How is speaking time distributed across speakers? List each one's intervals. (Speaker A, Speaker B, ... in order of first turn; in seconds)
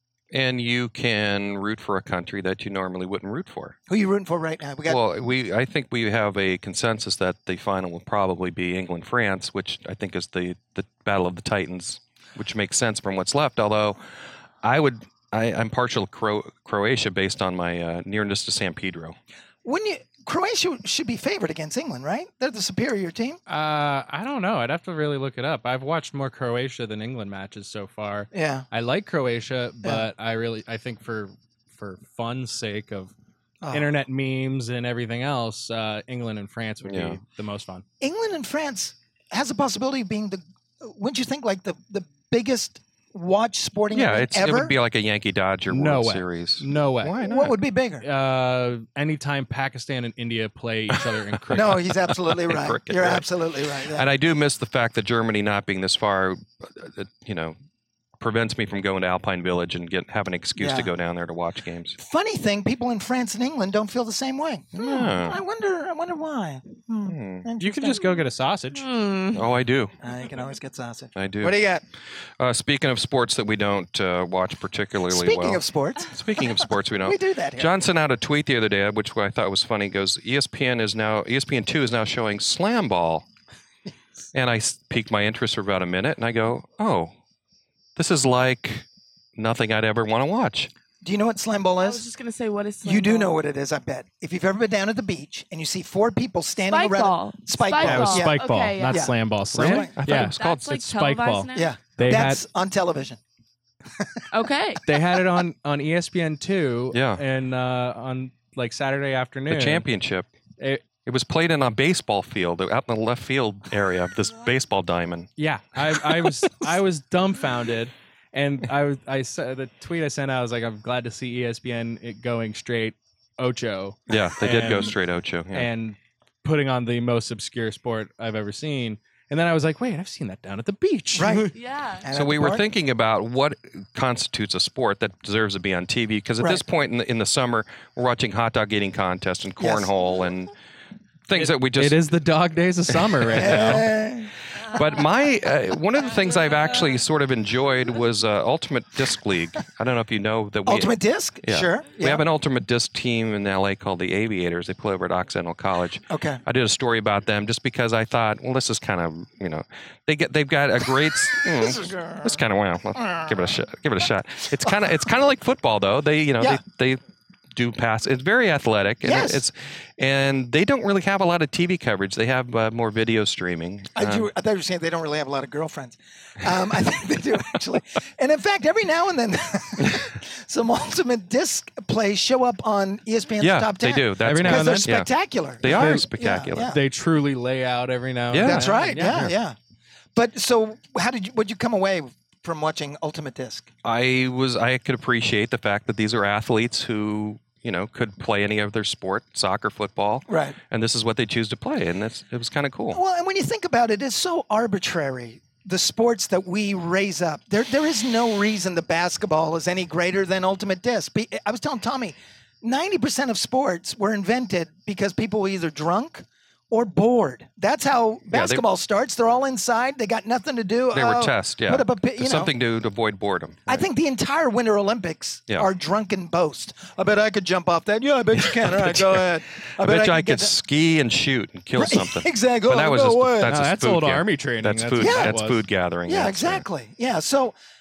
Speaker A: 0.3-3.8, 4.9-14.0, 14.6-19.2, 36.8-37.2, 43.9-47.6, 51.0-53.3, 53.9-57.6, 58.2-62.0, 64.7-65.4, 67.0-67.5, 69.3-69.9, 71.2-71.6, 72.4-83.3, 84.3-87.1, 88.0-88.8, 89.4-90.7, 99.5-100.7, 106.9-107.2, 109.5-110.3, 111.0-115.3, 124.1-125.7, 132.1-140.5, 141.3-142.0, 142.9-143.9, 144.6-167.0, 167.5-174.3, 183.4-185.1, 185.6-186.8, 188.3-189.3, 193.8-203.0, 218.3-218.6, 220.9-223.9, 228.4-236.7
Speaker B: 3.9-5.0, 19.6-23.4, 28.3-28.7, 38.0-44.8, 47.2-48.0, 51.5-54.1, 60.6-60.9, 62.0-68.1, 70.0-71.8, 75.1-77.7, 91.0-92.1, 92.8-99.9, 101.5-103.2, 104.0-104.3, 131.2-131.5, 132.0-132.7, 139.6-139.9, 143.3-144.3, 150.7-152.2, 156.1-156.4, 161.3-162.4, 162.9-163.5, 169.0-169.4, 173.9-186.8, 188.4-189.6, 190.2-193.7, 200.3-200.6, 202.9-222.5, 223.7-230.5, 231.8-233.6, 235.0-235.4, 236.1-237.6
Speaker C: 23.5-33.1, 33.7-37.8, 45.7-47.2, 48.0-51.9, 67.6-68.8, 97.8-102.4, 104.9-109.8, 110.6-110.8, 115.4-125.0, 125.5-131.6, 141.4-143.9, 184.2-184.9, 185.6-189.3, 233.4-235.6
Speaker D: 68.7-69.4, 91.8-93.4, 96.7-99.1, 100.0-101.7, 104.3-104.9, 131.5-132.1